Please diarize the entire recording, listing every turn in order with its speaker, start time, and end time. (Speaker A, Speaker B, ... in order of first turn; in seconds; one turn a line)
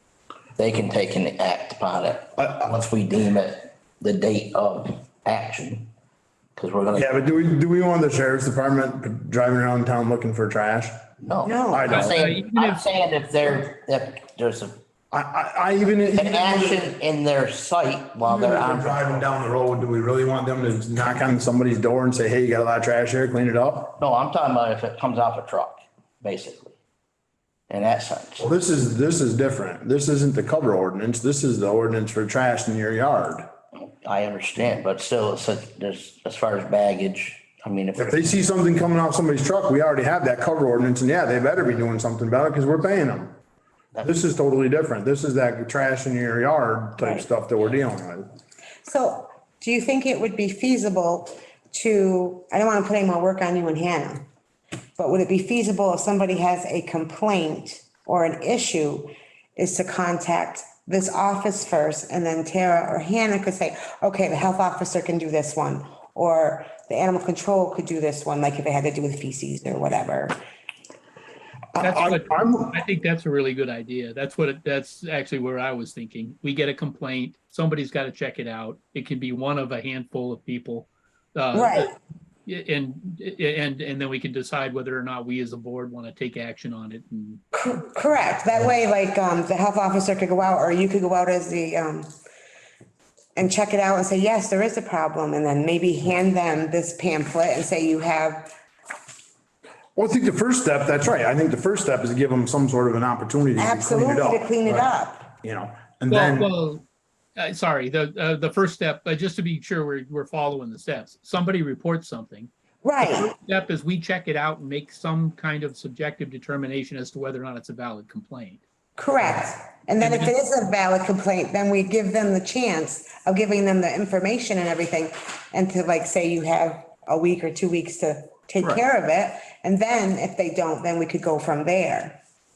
Speaker A: 0.6-5.9
Speaker B: 2.4-2.7
Speaker A: 6.6-7.2
Speaker B: 6.9-11.0
Speaker A: 11.2-14.8
Speaker C: 11.4-11.9
Speaker B: 11.7-12.2
Speaker D: 11.9-12.8
Speaker B: 15.1-16.9
Speaker A: 16.1-19.2
Speaker B: 18.3-24.0
Speaker A: 24.0-26.8
Speaker A: 27.7-28.5
Speaker B: 28.4-33.5
Speaker A: 33.8-38.3
Speaker B: 38.0-43.4
Speaker B: 44.0-48.3
Speaker C: 47.0-47.2
Speaker C: 48.9-54.3
Speaker C: 55.0-70.3
Speaker B: 71.8-72.8
Speaker D: 71.8-81.9
Speaker C: 81.5-81.9
Speaker D: 82.5-87.4
Speaker C: 87.5-92.1
Speaker C: 93.4-98.5
Speaker B: 100.0-106.5
Speaker C: 103.6-105.3
Speaker D: 106.1-106.8
Speaker D: 107.4-112.5
Speaker C: 112.8-113.3
Speaker D: 113.0-118.6
Speaker C: 119.0-132.2
Speaker D: 120.0-120.3